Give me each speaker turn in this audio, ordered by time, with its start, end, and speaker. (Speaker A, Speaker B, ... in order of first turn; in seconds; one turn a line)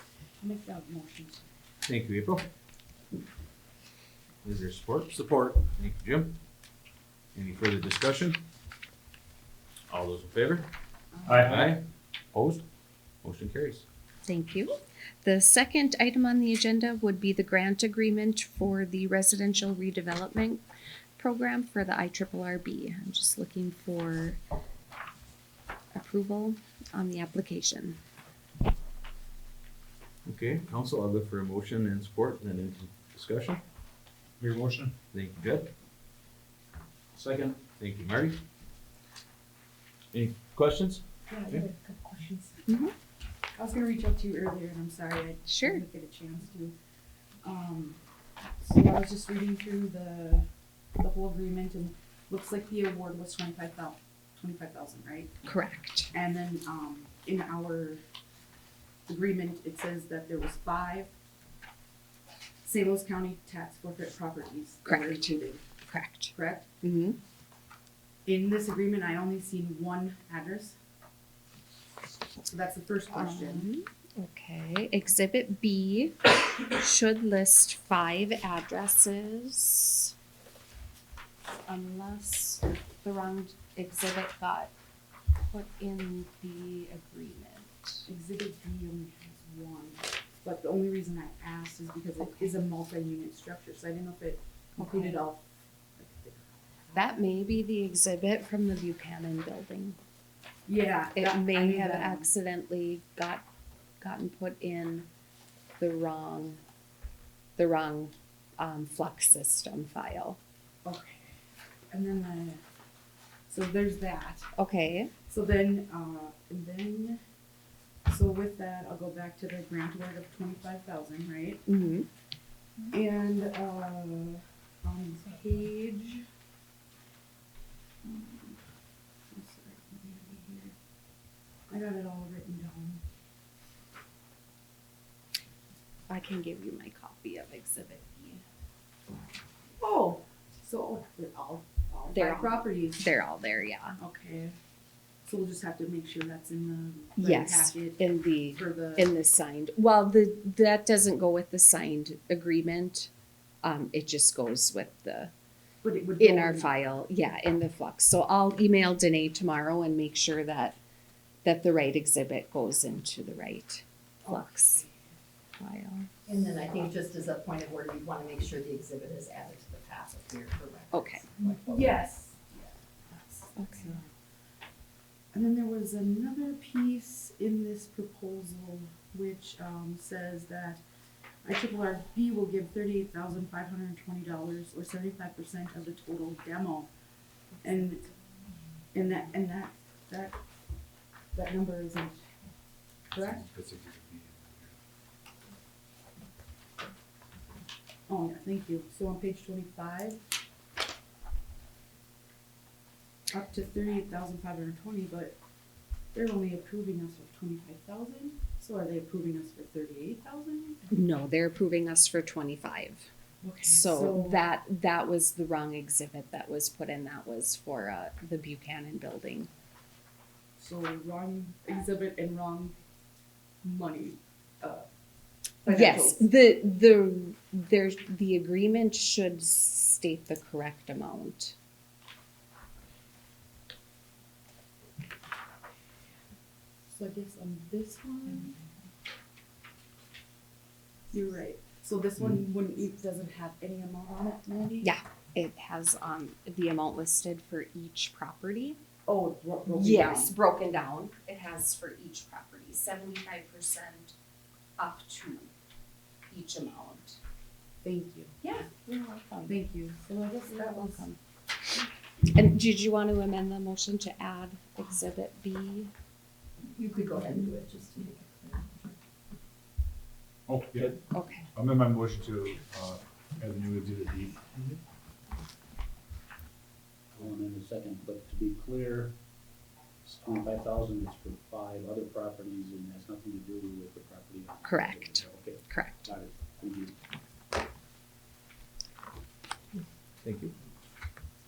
Speaker A: 0.4-1.5
Speaker B: 1.9-2.5
Speaker B: 4.4-6.4
Speaker B: 7.3-8.4
Speaker B: 9.9-10.7
Speaker A: 11.1-11.6
Speaker C: 11.3-11.7
Speaker B: 11.4-12.6
Speaker B: 13.2-13.8
Speaker D: 14.2-20.6
Speaker D: 21.2-24.4
Speaker D: 25.9-28.0
Speaker B: 30.3-33.6
Speaker C: 34.4-34.9
Speaker B: 35.1-35.7
Speaker B: 37.4-38.4
Speaker B: 40.1-41.6
Speaker A: 41.3-42.6
Speaker D: 42.7-42.9
Speaker A: 43.5-46.8
Speaker D: 45.5-45.8
Speaker A: 47.4-48.0
Speaker A: 48.6-50.5
Speaker A: 51.0-55.3
Speaker D: 55.5-56.1
Speaker A: 56.1-58.0
Speaker A: 59.1-61.1
Speaker A: 62.6-65.6
Speaker D: 64.8-67.2
Speaker A: 66.3-66.7
Speaker A: 68.2-70.8
Speaker A: 72.5-73.7
Speaker D: 73.1-80.1
Speaker D: 81.7-84.7
Speaker D: 85.4-88.1
Speaker A: 88.1-95.5
Speaker D: 92.2-92.5
Speaker D: 94.8-95.2
Speaker A: 96.0-97.1
Speaker D: 97.0-100.0
Speaker A: 100.7-102.3
Speaker D: 101.2-103.5
Speaker D: 104.0-105.1
Speaker D: 105.8-106.6
Speaker D: 107.6-110.4
Speaker A: 110.8-111.4
Speaker A: 111.9-112.6
Speaker A: 113.5-114.5
Speaker D: 114.5-115.1
Speaker A: 115.3-117.2
Speaker A: 118.1-121.6
Speaker D: 121.7-122.1
Speaker A: 122.9-126.2
Speaker A: 128.0-128.6
Speaker A: 129.3-130.7
Speaker A: 131.7-133.0
Speaker D: 136.1-138.4
Speaker A: 139.8-143.0
Speaker D: 142.1-144.0
Speaker A: 144.0-144.6
Speaker A: 145.2-149.1
Speaker D: 147.2-153.1
Speaker D: 153.6-155.3
Speaker A: 155.8-156.7
Speaker D: 156.2-160.8
Speaker D: 161.4-164.9
Speaker A: 164.3-164.6
Speaker D: 165.6-166.1
Speaker E: 166.3-171.9
Speaker D: 170.9-171.2
Speaker A: 171.4-172.7
Speaker A: 173.4-174.0
Speaker D: 173.6-174.0
Speaker A: 175.3-180.8
Speaker A: 181.4-186.9
Speaker A: 187.6-188.1
Speaker A: 188.9-190.4
Speaker A: 191.3-192.2
Speaker A: 193.1-193.5
Speaker C: 193.2-194.7
Speaker A: 198.1-200.2
Speaker A: 203.3-205.4
Speaker A: 206.1-210.9
Speaker D: 210.9-213.1
Speaker A: 213.4-214.5
Speaker D: 213.6-219.5
Speaker A: 220.6-222.7
Speaker A: 223.6-224.9
Speaker A: 225.7-226.2
Speaker D: 225.7-231.6
Speaker A: 236.9-238.6
Speaker A: 241.1-244.9
Speaker D: 244.8-248.8
Speaker A: 249.1-250.3
Speaker D: 249.7-254.2
Speaker D: 254.8-255.5
Speaker D: 256.3-257.2
Speaker A: 257.8-258.4
Speaker D: 258.4-259.6
Speaker A: 259.5-261.1
Speaker D: 260.5-261.2
Speaker D: 262.3-265.9
Speaker E: 266.7-268.9
Speaker C: 270.5-271.0
Speaker D: 271.1-271.5
Speaker C: 271.5-274.4
Speaker F: 277.1-279.2
Speaker F: 280.0-287.0
Speaker D: 284.6-286.1
Speaker B: 290.2-290.6